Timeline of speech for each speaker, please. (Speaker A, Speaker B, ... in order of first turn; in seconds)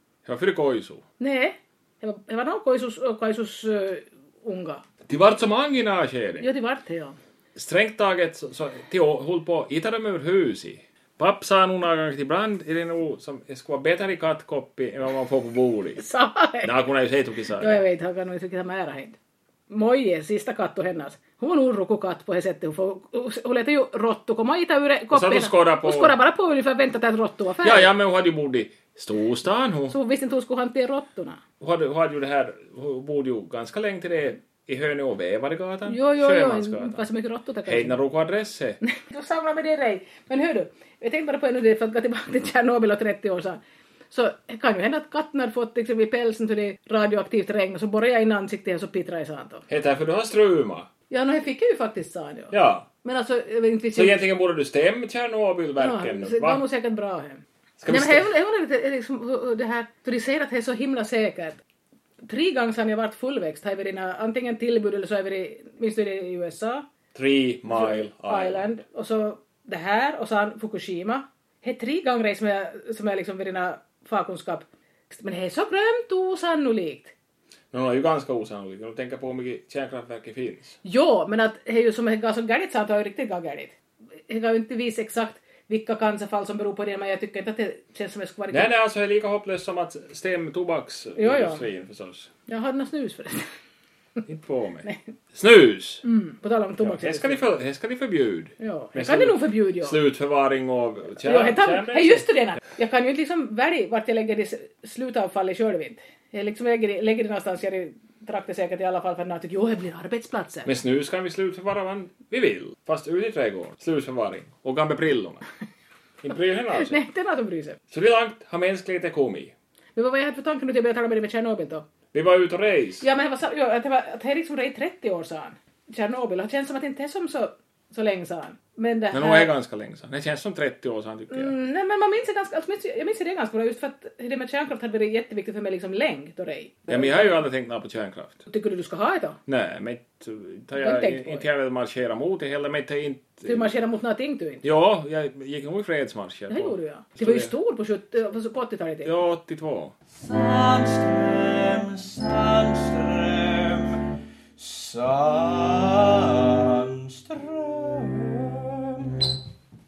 Speaker A: 0.2-1.0, 5.1-6.5, 7.5-16.0, 16.6-17.8, 25.1-26.2, 27.6-29.9, 31.6-37.0, 37.6-38.8, 49.7-50.9, 52.5-52.9, 53.9-56.6, 57.8-58.3, 67.1-68.7, 77.7-80.8, 88.5-92.3, 94.2-96.0, 96.8-102.2, 110.6-115.4, 116.2-117.0, 117.9-119.5, 122.1-123.0, 129.1-131.5, 136.9-138.4, 139.5-143.7, 144.6-147.5, 149.0-149.9
Speaker B: 1.2-4.8, 6.4-7.2, 16.0-16.7, 17.6-19.1, 19.7-27.9, 29.9-31.4, 35.9-38.0, 38.8-43.6, 44.1-49.6, 51.1-54.2, 55.8-61.6, 62.2-66.8, 67.7-77.1, 80.8-83.7, 84.3-88.7, 91.2-91.7, 92.5-93.5, 96.0-97.4, 98.6-100.0, 101.2-110.7, 116.7-117.8, 120.0-121.8, 123.0-129.5, 131.3-137.3, 138.5-139.4, 140.8-141.4, 143.4-144.6, 146.5-149.1
Speaker C: 150.1-159.3